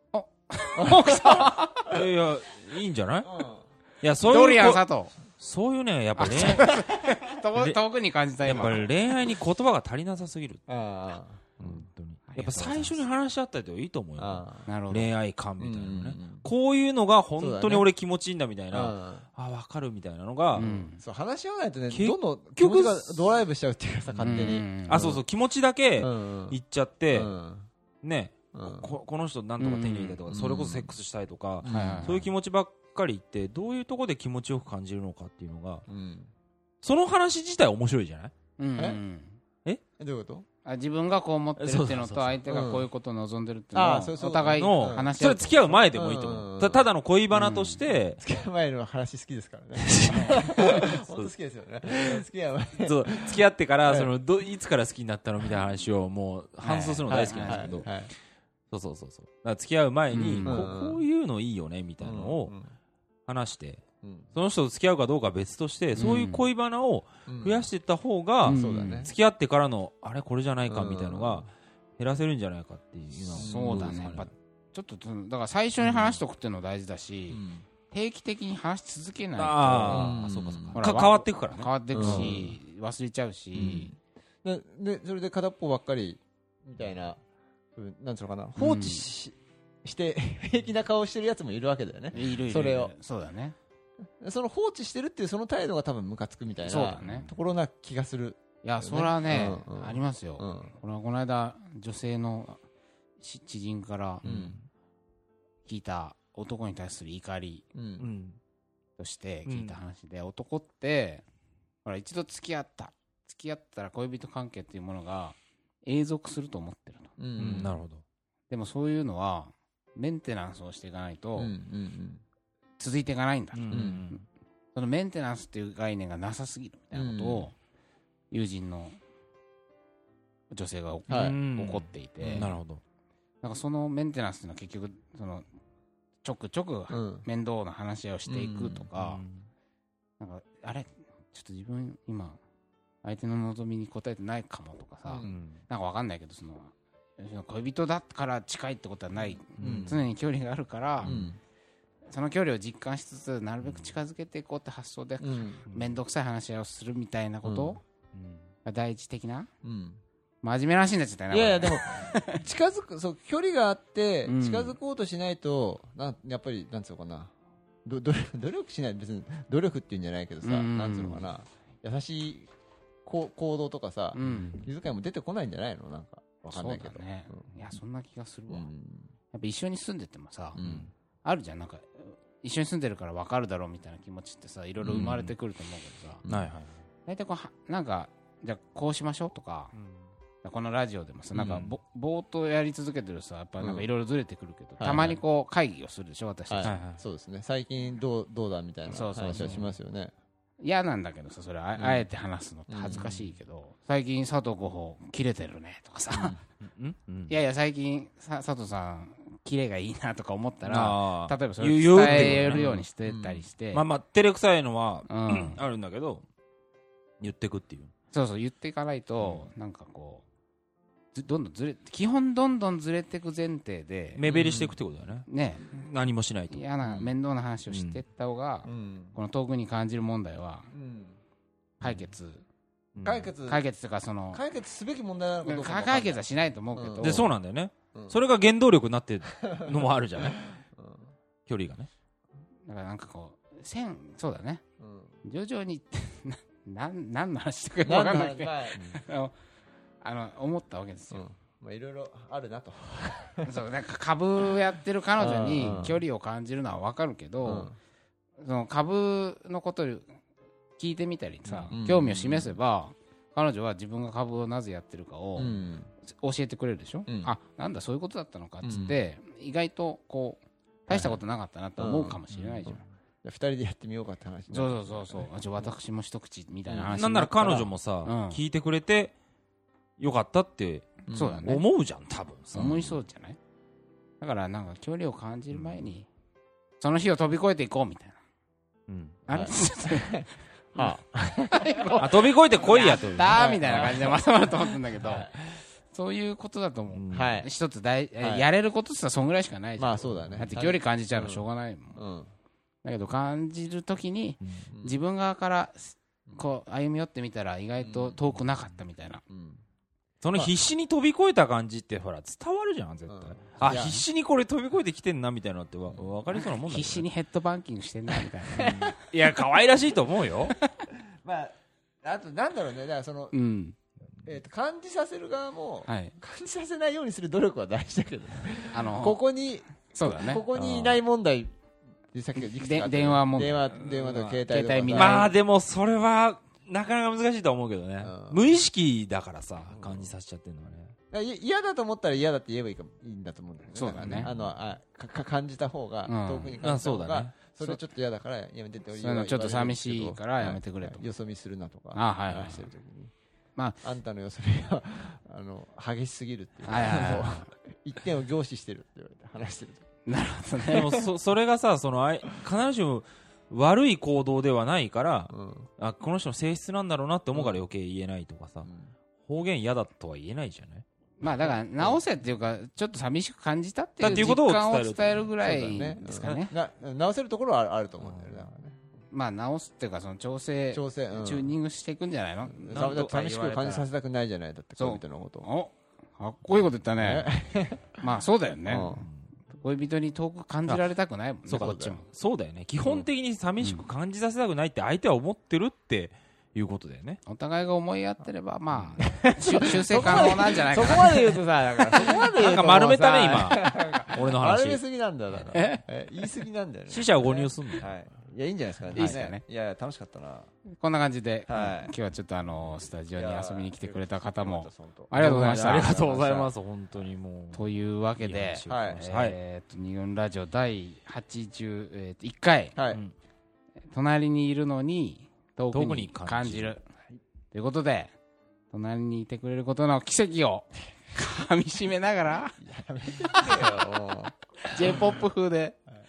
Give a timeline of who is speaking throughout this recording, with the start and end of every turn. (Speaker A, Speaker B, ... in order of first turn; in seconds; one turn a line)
Speaker A: 0.1-1.9
Speaker B: 0.8-2.0
Speaker C: 1.9-3.3
Speaker B: 3.2-3.6
Speaker C: 4.0-6.9
Speaker A: 4.2-5.1
Speaker A: 6.2-8.9
Speaker C: 8.4-10.7
Speaker B: 10.7-11.8
Speaker C: 11.6-20.7
Speaker A: 12.3-13.1
Speaker B: 14.2-14.7
Speaker A: 14.7-15.1
Speaker B: 15.6-16.5
Speaker B: 17.4-17.9
Speaker B: 18.7-19.2
Speaker A: 20.5-21.0
Speaker B: 20.5-25.2
Speaker C: 21.9-23.2
Speaker C: 24.1-27.3
Speaker A: 24.2-25.0
Speaker B: 26.0-26.6
Speaker B: 27.1-27.7
Speaker C: 28.0-35.9
Speaker B: 28.5-28.9
Speaker A: 29.6-30.2
Speaker B: 30.3-31.0
Speaker B: 31.6-32.2
Speaker A: 31.6-32.3
Speaker B: 35.9-36.3
Speaker C: 36.8-38.3
Speaker A: 38.6-39.4
Speaker B: 38.8-39.0
Speaker B: 40.0-40.5
Speaker A: 40.6-45.8
Speaker C: 41.6-42.4
Speaker B: 42.5-42.9
Speaker B: 43.7-45.1
Speaker C: 44.4-48.2
Speaker B: 45.9-46.9
Speaker A: 47.3-47.8
Speaker B: 48.2-54.1
Speaker C: 49.8-51.3
Speaker A: 50.0-50.9
Speaker C: 51.9-52.2
Speaker C: 52.8-57.9
Speaker A: 56.6-57.9
Speaker B: 57.1-58.1
Speaker C: 58.7-62.5
Speaker A: 60.1-60.6
Speaker B: 60.4-61.0
Speaker B: 62.0-62.7
Speaker C: 63.3-63.8
Speaker B: 64.0-64.3
Speaker C: 64.3-74.3
Speaker A: 65.9-66.5
Speaker B: 67.2-67.7
Speaker A: 68.4-69.1
Speaker B: 68.4-69.1
Speaker B: 70.7-71.5
Speaker B: 73.3-74.2
Speaker A: 73.3-80.2
Speaker C: 75.8-76.2
Speaker B: 77.3-77.6
Speaker C: 79.3-82.5
Speaker B: 79.8-80.8
Speaker A: 80.7-83.9
Speaker B: 81.9-82.5
Speaker B: 83.5-87.2
Speaker B: 87.7-92.9
Speaker A: 88.6-89.0
Speaker A: 92.1-93.6
Speaker B: 94.2-100.7
Speaker A: 96.6-97.3
Speaker A: 98.6-102.6
Speaker A: 103.2-104.2
Speaker B: 104.2-104.6
Speaker C: 104.2-104.7
Speaker A: 105.6-107.6
Speaker B: 107.7-108.1
Speaker C: 108.0-108.4
Speaker A: 109.0-111.2
Speaker C: 109.4-109.8
Speaker A: 111.8-117.1
Speaker B: 117.2-117.7
Speaker C: 117.4-118.0
Speaker A: 118.5-121.5
Speaker B: 121.3-122.2
Speaker A: 122.8-124.2
Speaker C: 123.5-124.2
Speaker B: 123.7-124.1
Speaker A: 124.7-127.5
Speaker B: 126.9-127.5
Speaker A: 128.3-129.0
Speaker A: 130.5-132.5
Speaker B: 131.1-131.4
Speaker C: 131.1-132.8
Speaker B: 132.2-132.5
Speaker A: 133.4-135.4
Speaker A: 136.2-139.2
Speaker B: 136.9-137.3
Speaker B: 138.2-138.8
Speaker C: 138.7-139.5
Speaker A: 140.2-142.4
Speaker A: 143.0-151.2
Speaker B: 145.0-145.4
Speaker C: 145.2-145.6
Speaker C: 149.5-150.0
Speaker B: 149.6-150.0
Speaker C: 151.0-151.3
Speaker B: 151.0-151.4
Speaker A: 152.1-157.8
Speaker C: 153.6-153.9
Speaker B: 155.2-155.6
Speaker C: 155.7-156.0
Speaker C: 157.5-158.5
Speaker A: 158.6-159.5
Speaker B: 159.6-160.0
Speaker A: 160.4-162.4
Speaker B: 161.3-167.3
Speaker A: 164.2-164.8
Speaker B: 167.8-172.5
Speaker A: 170.4-171.3
Speaker B: 173.0-177.5
Speaker A: 174.1-174.7
Speaker A: 176.5-178.7
Speaker B: 178.5-179.1
Speaker A: 179.3-180.6
Speaker B: 180.5-180.9
Speaker C: 180.6-180.9
Speaker A: 181.2-186.2
Speaker B: 184.8-185.2
Speaker C: 184.9-185.3
Speaker B: 186.2-186.5
Speaker C: 186.3-186.8
Speaker A: 187.1-189.7
Speaker C: 189.7-190.1
Speaker A: 190.4-196.8
Speaker B: 191.3-191.7
Speaker C: 191.3-191.7
Speaker B: 193.6-193.9
Speaker B: 194.8-195.2
Speaker C: 194.8-195.2
Speaker B: 196.5-200.1
Speaker C: 196.6-197.0
Speaker A: 198.9-199.6
Speaker C: 199.4-199.7
Speaker A: 200.6-206.3
Speaker B: 202.7-203.1
Speaker C: 202.9-203.3
Speaker B: 206.1-206.4
Speaker C: 206.6-207.3
Speaker A: 207.3-213.8
Speaker C: 210.7-212.8
Speaker B: 211.9-213.4
Speaker C: 213.7-216.2
Speaker A: 215.1-215.6
Speaker C: 217.2-217.9
Speaker A: 218.1-220.2
Speaker A: 221.1-224.2
Speaker C: 224.2-227.1
Speaker B: 224.3-224.8
Speaker A: 225.3-225.9
Speaker A: 226.5-230.7
Speaker C: 227.7-228.0
Speaker B: 228.6-229.2
Speaker B: 230.7-231.2
Speaker A: 231.8-232.4
Speaker C: 231.8-232.1
Speaker C: 232.9-233.3
Speaker B: 233.0-233.6
Speaker A: 233.4-234.4
Speaker B: 234.3-237.3
Speaker A: 235.4-237.3
Speaker C: 237.0-240.5
Speaker B: 237.9-238.2
Speaker B: 239.3-241.1
Speaker C: 241.5-241.9
Speaker A: 242.7-244.6
Speaker B: 244.8-245.1
Speaker A: 245.2-249.3
Speaker B: 247.8-248.9
Speaker A: 250.0-251.2
Speaker B: 251.1-253.6
Speaker A: 253.4-257.7
Speaker B: 255.2-256.0
Speaker B: 257.4-257.8
Speaker A: 258.4-260.1
Speaker A: 260.8-272.8
Speaker C: 261.4-261.8
Speaker B: 261.7-262.6
Speaker B: 265.4-265.9
Speaker B: 267.1-267.3
Speaker B: 268.6-269.0
Speaker B: 270.9-271.2
Speaker B: 271.8-272.7
Speaker C: 272.3-272.9
Speaker B: 273.2-275.3
Speaker A: 274.5-278.4
Speaker B: 276.7-277.6
Speaker C: 276.9-279.1
Speaker C: 280.0-283.0
Speaker B: 281.1-281.5
Speaker A: 281.1-281.6
Speaker A: 282.5-283.4
Speaker A: 284.2-286.1
Speaker C: 285.5-285.8
Speaker A: 286.8-288.2
Speaker C: 288.9-289.2
Speaker A: 289.3-290.9
Speaker B: 289.3-292.2
Speaker A: 291.5-295.3
Speaker C: 292.0-294.1
Speaker B: 293.2-295.4
Speaker A: 295.9-302.0
Speaker C: 296.9-297.4
Speaker B: 297.1-297.5
Speaker B: 298.2-298.5
Speaker B: 299.8-302.3
Speaker A: 302.8-309.2
Speaker C: 304.4-304.7
Speaker B: 304.7-305.0
Speaker B: 307.8-308.2
Speaker B: 309.3-309.6
Speaker C: 310.2-317.0
Speaker B: 313.1-314.0
Speaker A: 313.6-314.0
Speaker A: 316.3-318.9
Speaker B: 318.5-318.9
Speaker C: 318.5-320.6
Speaker B: 321.2-323.3
Speaker A: 323.3-323.8
Speaker B: 324.2-331.5
Speaker A: 325.9-326.1
Speaker A: 328.7-329.2
Speaker A: 329.9-330.4
Speaker C: 330.5-331.0
Speaker B: 332.1-335.3
Speaker A: 332.4-335.3
Speaker C: 334.9-340.9
Speaker B: 338.0-338.6
Speaker B: 339.7-340.1
Speaker B: 341.1-353.1
Speaker A: 343.7-344.3
Speaker C: 343.9-344.5
Speaker A: 346.1-346.5
Speaker C: 346.6-347.3
Speaker A: 349.0-351.0
Speaker A: 351.9-352.7
Speaker B: 353.8-359.9
Speaker A: 356.6-357.4
Speaker A: 360.1-360.9
Speaker C: 360.7-368.7
Speaker B: 365.3-365.7
Speaker B: 367.3-367.6
Speaker B: 368.6-368.9
Speaker C: 369.2-370.8
Speaker A: 371.2-376.5
Speaker B: 371.4-372.0
Speaker C: 374.0-375.9
Speaker B: 374.0-374.4
Speaker B: 375.4-378.8
Speaker C: 378.0-378.4
Speaker A: 379.1-383.9
Speaker B: 380.7-381.5
Speaker B: 382.4-385.5
Speaker C: 382.7-383.3
Speaker A: 384.8-387.3
Speaker B: 387.0-388.0
Speaker A: 388.0-389.0
Speaker B: 388.7-389.1
Speaker C: 389.0-389.3
Speaker A: 389.5-392.0
Speaker C: 391.5-397.2
Speaker B: 391.5-392.0
Speaker A: 397.2-401.3
Speaker C: 398.7-399.1
Speaker B: 399.0-410.5
Speaker C: 399.9-400.4
Speaker C: 402.0-404.8
Speaker A: 405.5-405.8
Speaker C: 406.9-407.9
Speaker A: 408.9-409.4
Speaker A: 410.7-416.0
Speaker B: 411.5-411.9
Speaker B: 413.1-416.5
Speaker C: 415.1-417.6
Speaker A: 417.5-422.8
Speaker C: 418.2-419.4
Speaker B: 418.7-419.0
Speaker B: 422.7-423.0
Speaker A: 423.9-426.9
Speaker C: 425.7-426.7
Speaker A: 427.5-428.1
Speaker A: 428.7-432.6
Speaker B: 432.6-434.3
Speaker A: 433.2-433.7
Speaker A: 434.6-435.8